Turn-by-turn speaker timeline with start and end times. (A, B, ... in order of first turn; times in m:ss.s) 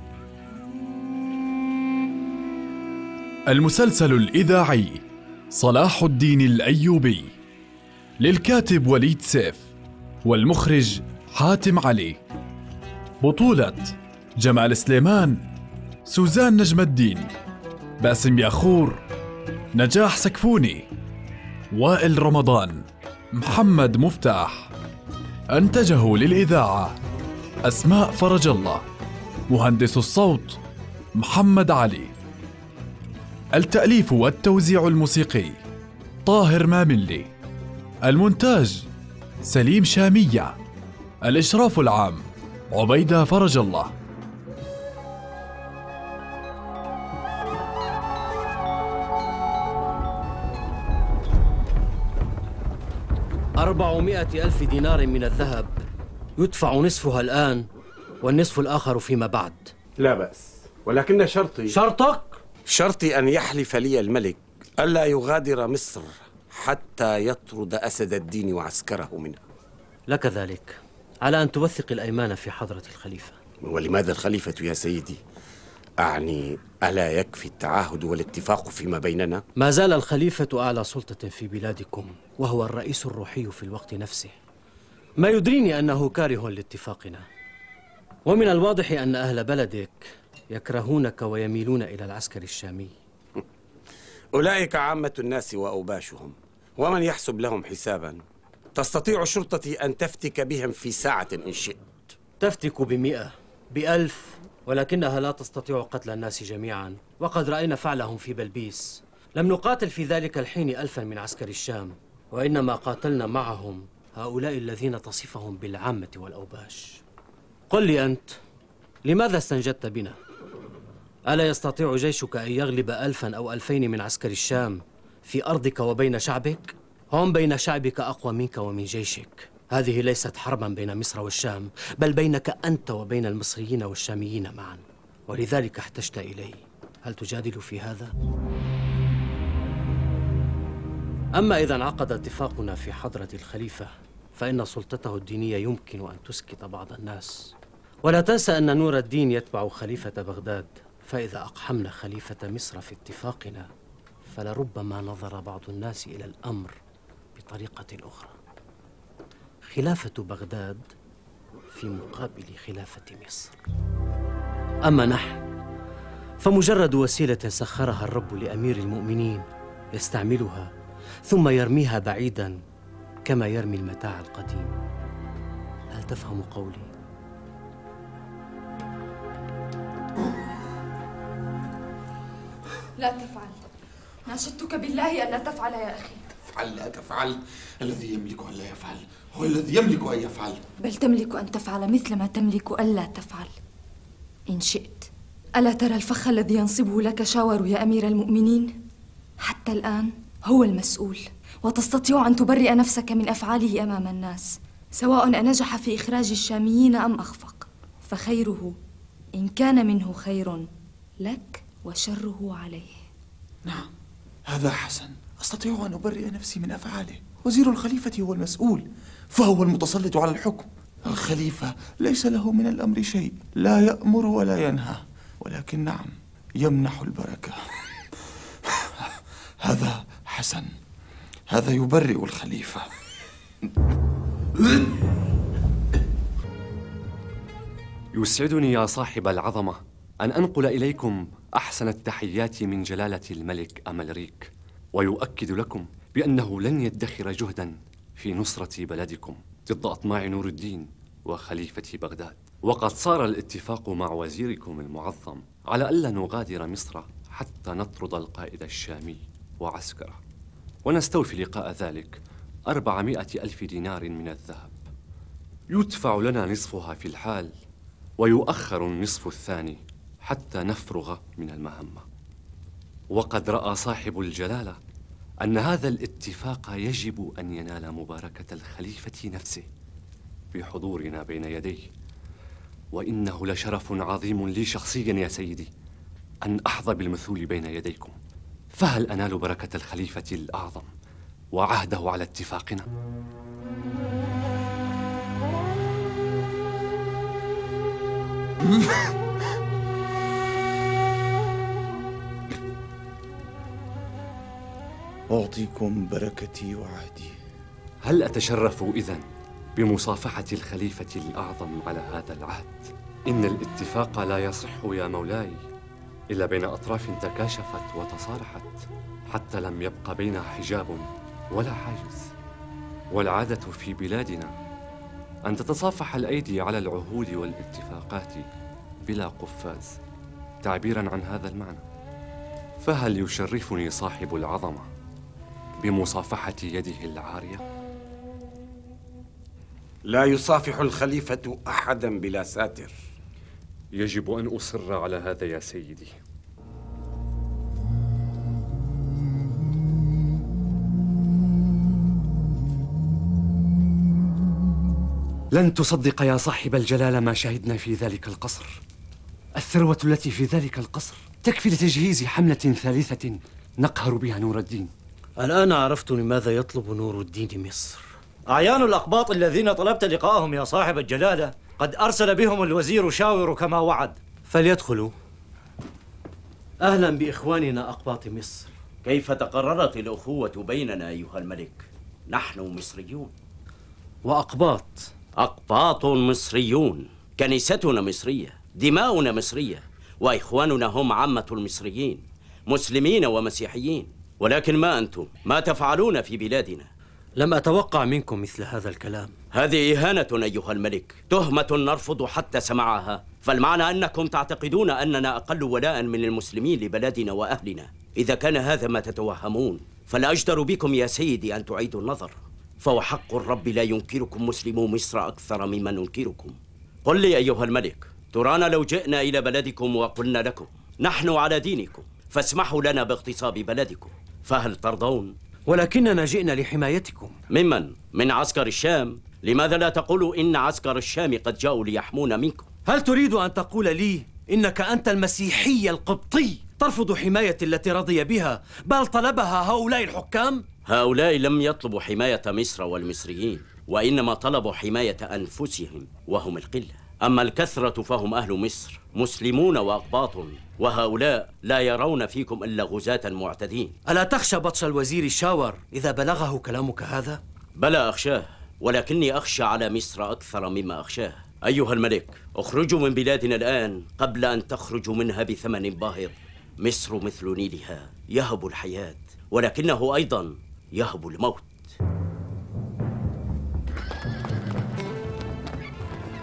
0:03.5-0:07.3 A
0:08.2-0:09.7 A
0:10.2-0:12.2 A
0:13.2-0:15.5 A
0:16.1-0:17.3 A
0:18.0-0:19.0 A
0:19.8-0:20.9 A
0:21.7-0:24.7 A
0:25.5-0:27.0 A
0:27.6-0:28.8 A
0:29.5-0:30.6 A
0:31.2-0:32.1 A
0:33.6-0:35.6 A
0:36.3-0:37.3 A
0:38.0-0:38.9 A
0:39.4-0:40.6 A
0:41.2-0:43.9 A
0:53.6-0:55.7 B
0:56.4-0:57.7 B
0:58.2-0:59.7 B
1:00.0-1:01.8 C
1:01.7-1:02.4 B
1:02.7-1:09.4 C
1:10.1-1:13.4 B
1:13.6-1:15.2 C
1:16.0-1:19.4 C
1:19.6-1:24.3 B
1:25.2-1:27.2 B
1:28.3-1:32.9 B
1:34.3-1:38.2 C
1:38.8-1:42.0 C
1:42.4-1:57.0 B
1:57.7-1:58.4 B
1:59.0-2:00.2 B
2:01.3-2:18.1 B
2:21.4-2:33.7 B
2:34.3-2:36.8 B
2:37.4-2:38.4 B
2:39.7-2:40.8 B
2:41.7-2:43.6 B
2:44.9-2:45.4 B
2:46.4-2:50.7 B
2:51.3-2:52.6 B
2:53.3-2:54.8 B
2:55.9-2:56.9 B
3:03.0-3:03.6 D
3:04.3-3:06.3 D
3:06.4-3:10.6 E
3:10.8-3:13.6 D
3:14.5-3:18.8 D
3:19.4-3:28.8 D
3:29.3-3:30.7 D
3:31.2-3:33.0 D
3:33.6-3:33.9 E
3:34.5-3:47.8 E
3:48.7-3:50.7 E
3:51.5-3:52.9 E
3:58.1-4:20.2 F
4:20.8-4:22.2 F
4:22.7-4:24.8 F
4:25.7-4:27.5 F
4:28.2-4:32.0 F
4:33.1-4:34.8 F
4:35.4-4:39.7 F
4:40.5-4:41.9 F
4:42.9-4:45.7 F
4:46.4-4:48.2 F
4:48.8-4:50.9 F
4:51.5-4:52.9 F
4:58.7-4:59.1 E
5:05.3-5:07.4 E
5:08.0-5:09.2 F
5:09.8-5:15.6 F
5:16.3-5:22.3 F
5:23.1-5:24.5 F
5:25.5-5:28.5 F
5:29.0-5:30.0 F
5:30.6-5:31.8 F
5:32.8-5:34.9 F
5:35.8-5:37.6 F
5:40.1-5:42.9 C
5:43.9-5:46.2 F
5:55.5-5:58.8 F
5:59.6-6:04.9 F
6:05.4-6:08.0 B
6:08.5-6:14.2 G
6:14.5-6:15.1 B
6:16.8-6:18.7 B
6:19.0-6:23.3 H
6:24.2-6:25.1 B
6:25.4-6:36.9 H
6:37.4-6:39.3 B
6:39.5-7:05.3 H
7:05.7-7:07.4 B
7:07.5-7:12.7 H
7:12.9-7:20.6 B
7:20.9-7:34.0 H
7:34.1-7:37.4 B
7:37.8-7:51.9 H